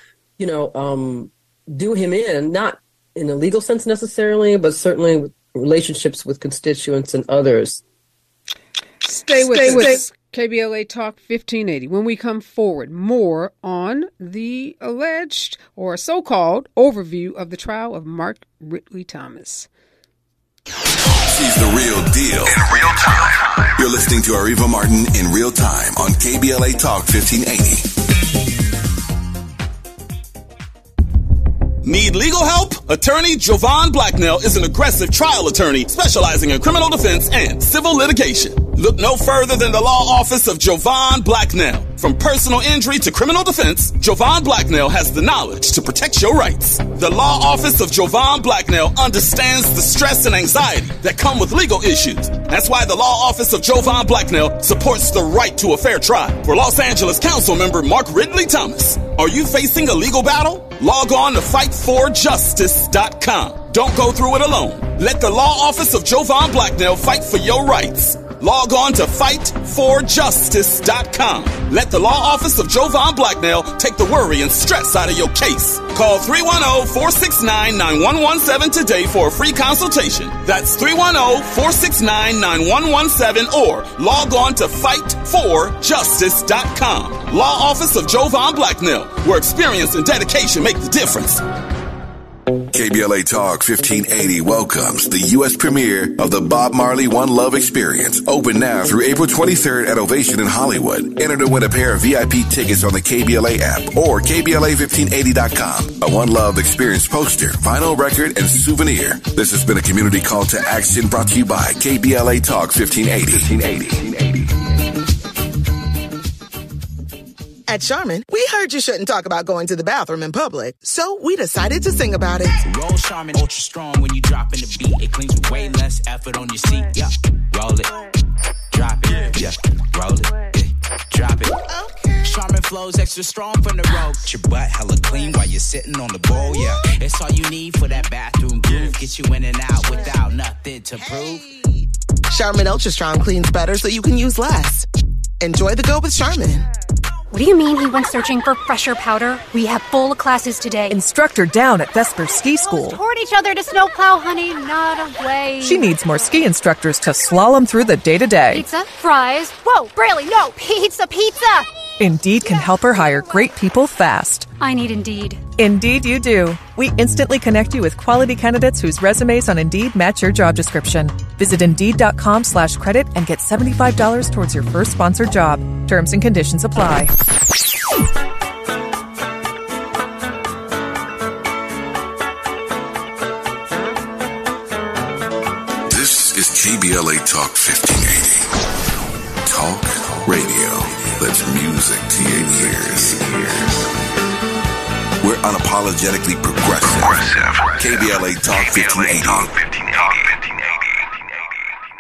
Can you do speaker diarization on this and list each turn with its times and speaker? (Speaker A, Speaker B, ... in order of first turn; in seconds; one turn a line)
Speaker A: 0.4-7.8
Speaker B: 9.1-19.7
Speaker C: 21.2-27.9
Speaker D: 31.8-91.4
Speaker C: 92.7-114.7
Speaker E: 117.7-122.5
Speaker F: 122.7-128.1
Speaker F: 128.7-131.6
Speaker E: 131.7-132.2
Speaker F: 132.2-141.4
Speaker E: 141.1-144.9
Speaker E: 145.4-146.7
Speaker G: 147.3-151.0
Speaker H: 150.9-153.0
Speaker G: 152.6-155.9
Speaker H: 155.6-158.7
Speaker G: 158.5-161.7
Speaker H: 162.0-164.5
Speaker G: 164.6-165.4
Speaker H: 165.6-177.1
Speaker C: 185.9-188.5
Speaker C: 189.4-193.9
Speaker C: 195.2-200.4